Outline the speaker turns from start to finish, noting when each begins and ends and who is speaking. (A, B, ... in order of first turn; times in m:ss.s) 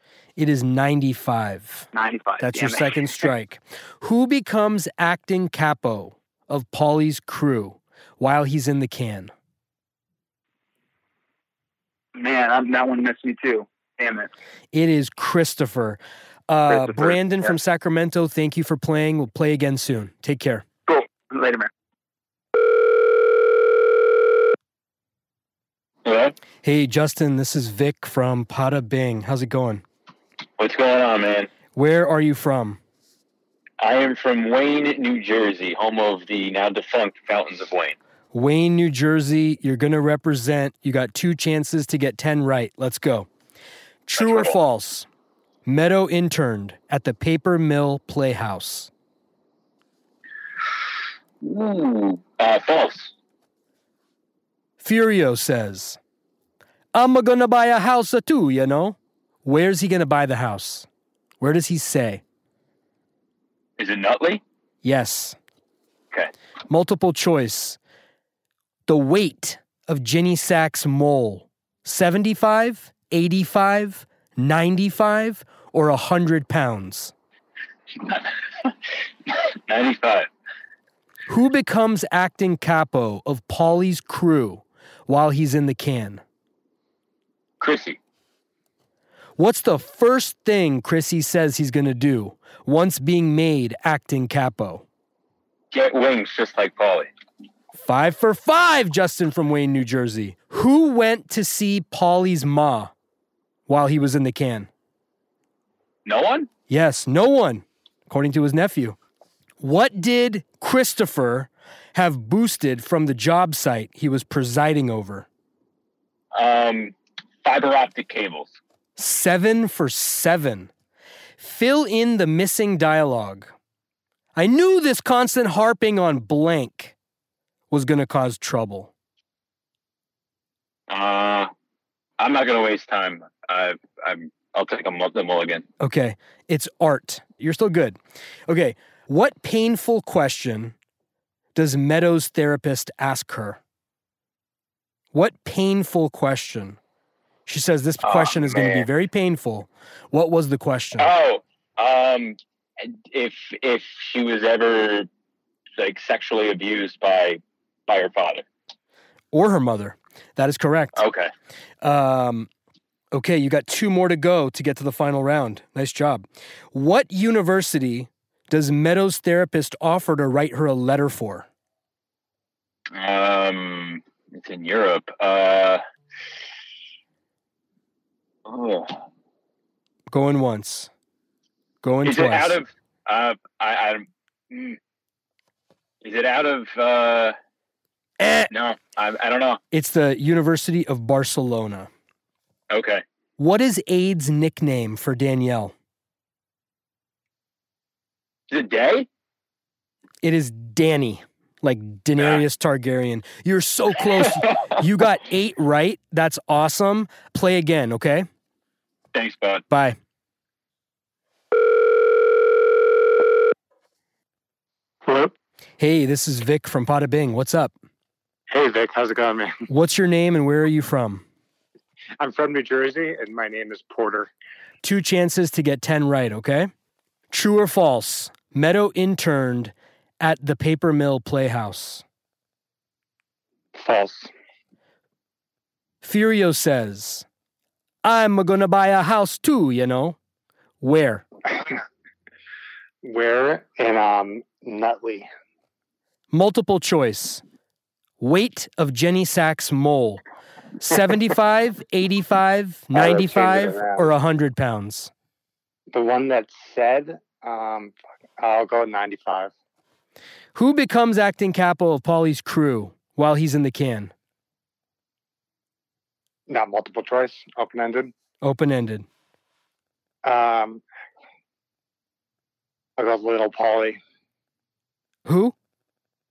0:00.4-0:01.8 A
0:01.9-0:03.3 B
0:02.4-0:09.3 A
0:12.1-0:14.3 B
0:14.7-0:20.6 A
0:16.7-0:17.6 B
0:20.9-0:21.7 B
0:26.0-0:26.4 C
0:26.6-0:29.8 A
0:30.6-0:31.5 C
0:31.7-0:32.8 A
0:33.8-0:38.0 C
0:38.3-0:43.3 A
0:44.0-0:45.1 A
0:44.2-0:44.5 C
0:45.6-0:48.9 A
0:51.4-0:53.1 C
0:54.8-0:56.0 A
0:56.9-1:00.9 A
1:01.4-1:02.2 A
1:03.8-1:04.4 C
1:04.8-1:05.4 A
1:06.7-1:07.8 A
1:08.9-1:17.1 A
1:19.7-1:20.3 C
1:21.3-1:26.2 A
1:27.6-1:28.0 C
1:29.4-1:34.8 A
1:35.7-1:37.1 C
1:37.8-1:42.9 A
1:43.7-1:44.7 A
1:46.0-1:46.5 C
1:46.7-1:49.0 A
1:49.6-1:55.3 A
1:56.3-1:58.6 C
1:59.0-2:00.7 A
2:01.4-2:03.5 A
2:04.4-2:06.9 A
2:07.7-2:08.9 A
2:10.9-2:11.5 C
2:12.2-2:15.6 C
2:15.8-2:20.7 A
2:21.5-2:23.6 A
2:25.1-2:26.8 A
2:27.5-2:31.1 A
2:28.0-2:28.9 C
2:31.0-2:35.1 C
2:35.8-2:38.4 C
2:39.3-2:41.0 A
2:40.9-2:41.3 C
2:41.8-2:42.5 A
2:43.1-2:51.5 A
2:52.9-2:55.8 C
2:58.4-2:59.0 C
3:00.1-3:00.9 A
3:01.8-3:02.6 A
3:02.0-3:04.8 C
3:06.0-3:07.3 C
3:08.2-3:08.5 A
3:08.5-3:09.6 C
3:09.7-3:11.9 A
3:12.7-3:13.0 C
3:13.4-3:15.7 A
3:18.5-3:19.1 C
3:20.2-3:28.2 A
3:24.1-3:24.6 C
3:29.1-3:29.6 C
3:29.7-3:30.0 A
3:35.0-3:35.3 D
3:35.8-3:37.7 A
3:38.5-3:39.7 D
3:39.7-3:41.2 A
3:42.2-3:44.3 D
3:44.8-3:46.7 A
3:47.3-3:52.0 A
3:53.7-3:54.3 D
3:56.0-3:57.2 A
3:58.0-4:00.2 A
4:00.8-4:01.2 A
4:03.0-4:05.3 D
4:06.3-4:07.4 A
4:08.2-4:10.2 A
4:10.8-4:15.1 A
4:12.9-4:14.1 D
4:15.9-4:19.5 D
4:20.5-4:24.1 A
4:26.5-4:28.1 D
4:28.4-4:29.0 A
4:30.2-4:30.8 D
4:33.0-4:34.0 D
4:35.2-4:35.5 A